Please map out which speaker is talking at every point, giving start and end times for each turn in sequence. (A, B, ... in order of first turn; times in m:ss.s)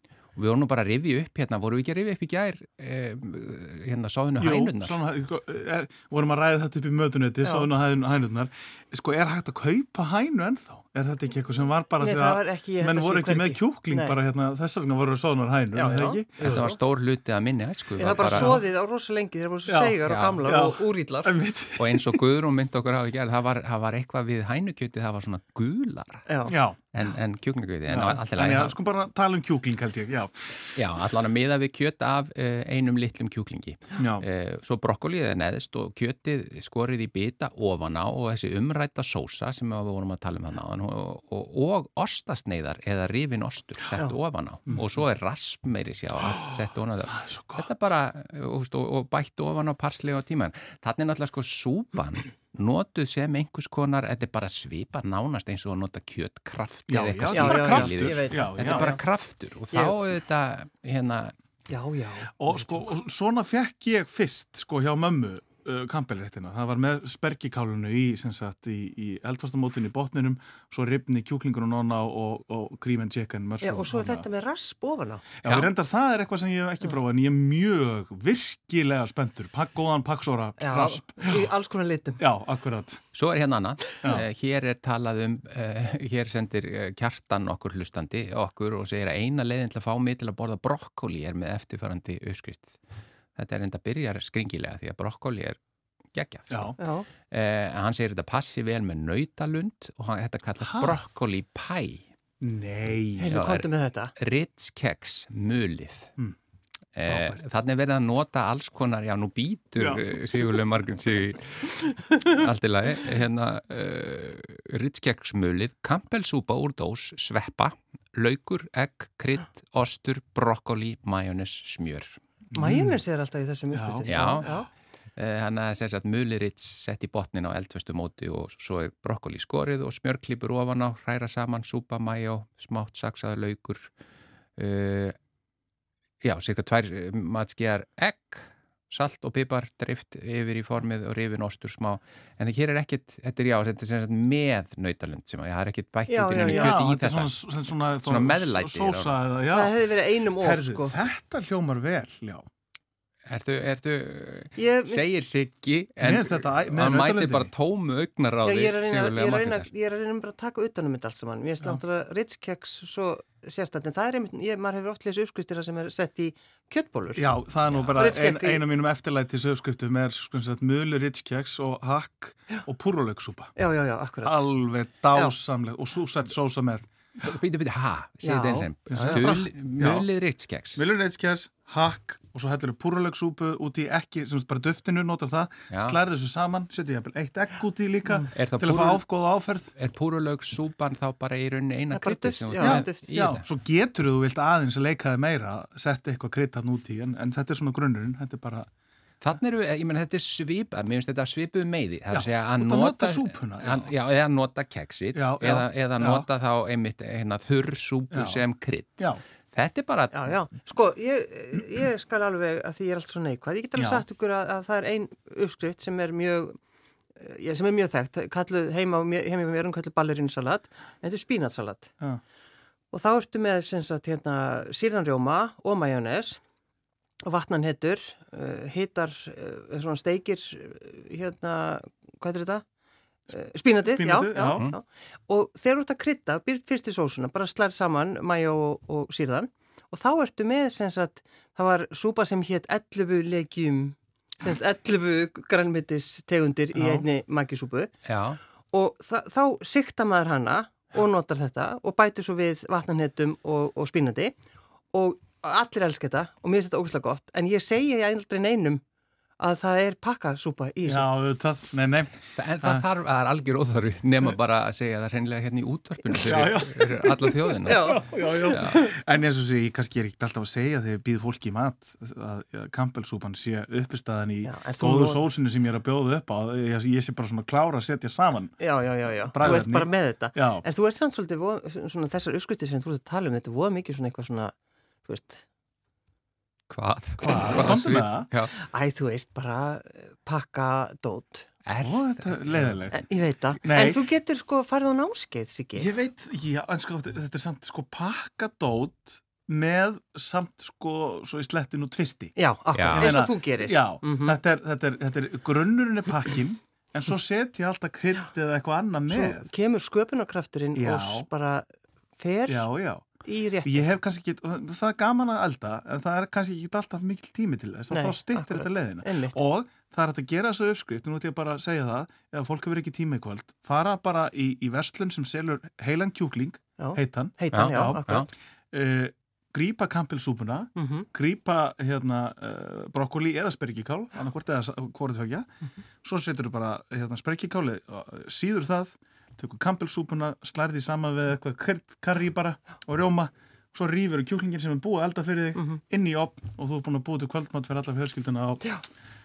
0:00.4-0:05.0 A
0:04.4-0:16.7 B
0:12.0-0:14.2 C
0:15.7-0:16.7 C
0:16.4-0:18.6 A
0:18.0-0:21.3 C
0:18.1-0:18.6 B
0:19.7-0:22.2 B
0:20.0-0:20.4 A
0:21.8-0:26.3 A
0:26.3-0:26.5 C
0:26.4-0:26.8 B
0:26.9-0:28.8 A
0:27.9-0:30.6 B
0:30.7-1:01.3 A
0:34.0-0:34.2 B
0:46.2-0:47.9 B
0:56.9-0:59.0 B
0:57.3-0:59.0 C
1:01.7-1:02.7 C
1:02.4-1:14.2 B
1:13.6-1:15.3 C
1:15.4-1:21.5 B
1:15.4-1:15.7 A
1:20.6-1:22.2 C
1:22.2-1:23.0 B
1:23.1-1:32.8 A
1:33.3-1:35.6 A
1:36.1-1:36.8 A
1:36.5-1:36.8 B
1:36.8-1:37.0 C
1:37.3-1:42.1 A
1:40.6-1:41.0 B
1:42.4-1:43.3 B
1:43.2-1:44.1 C
1:43.3-1:46.1 A
1:46.9-2:02.2 A
1:47.0-1:47.4 B
1:49.8-1:50.6 B
2:02.5-2:03.0 B
2:02.6-2:04.7 C
2:03.7-2:04.6 B
2:04.0-2:04.5 A
2:05.2-2:13.9 A
2:14.6-2:15.2 A
2:16.2-2:27.3 A
2:26.1-2:26.8 C
2:26.4-2:32.5 B
2:28.0-2:29.2 A
2:29.4-2:30.9 C
2:33.3-2:39.7 A
2:34.6-2:35.0 C
2:36.0-2:37.5 B
2:38.4-2:47.3 C
2:47.1-2:53.5 B
2:47.7-2:48.1 A
2:48.0-2:48.6 C
2:53.6-2:54.4 C
2:54.2-2:56.9 B
2:57.2-3:00.8 A
2:58.2-2:59.2 C
2:58.9-3:00.1 B
3:00.7-3:09.7 B
3:05.7-3:06.0 A
3:08.3-3:09.0 A
3:09.7-3:13.4 A
3:11.9-3:13.1 C
3:12.6-3:18.7 B
3:19.2-3:30.4 A
3:22.1-3:23.9 B
3:25.1-3:26.2 B
3:28.1-3:28.4 B
3:30.1-3:36.6 C
3:33.8-3:34.0 B
3:37.2-3:41.9 C
3:42.9-3:46.4 C
3:47.2-3:52.6 C
3:53.3-4:07.9 C
3:53.8-3:54.7 B
4:06.8-4:07.0 B
4:08.0-4:08.4 A
4:08.7-4:14.4 C
4:14.9-4:18.8 C
4:19.4-4:21.1 C
4:20.8-4:22.8 B
4:22.3-4:28.8 A
4:26.1-4:38.5 B
4:27.6-4:28.8 C
4:34.4-4:35.2 C
4:38.6-4:45.4 C
4:39.2-4:40.6 B
4:46.7-4:48.5 A
4:47.2-4:48.3 B
4:48.7-4:51.5 C
4:51.6-4:52.8 A
4:51.8-4:53.0 B
4:52.9-4:55.9 C
4:53.6-4:54.0 B
4:55.8-5:02.3 B
5:02.4-5:04.4 C
5:02.7-5:03.1 A
5:02.9-5:09.5 B
5:09.1-5:11.6 C
5:10.7-5:11.3 B
5:12.2-5:12.7 C
5:12.5-5:28.1 B
5:13.2-5:13.9 C
5:17.9-5:19.4 C
5:26.8-5:28.3 C
5:27.5-5:28.3 A
5:28.7-5:35.5 B
5:30.8-5:31.0 C
5:36.0-5:48.6 B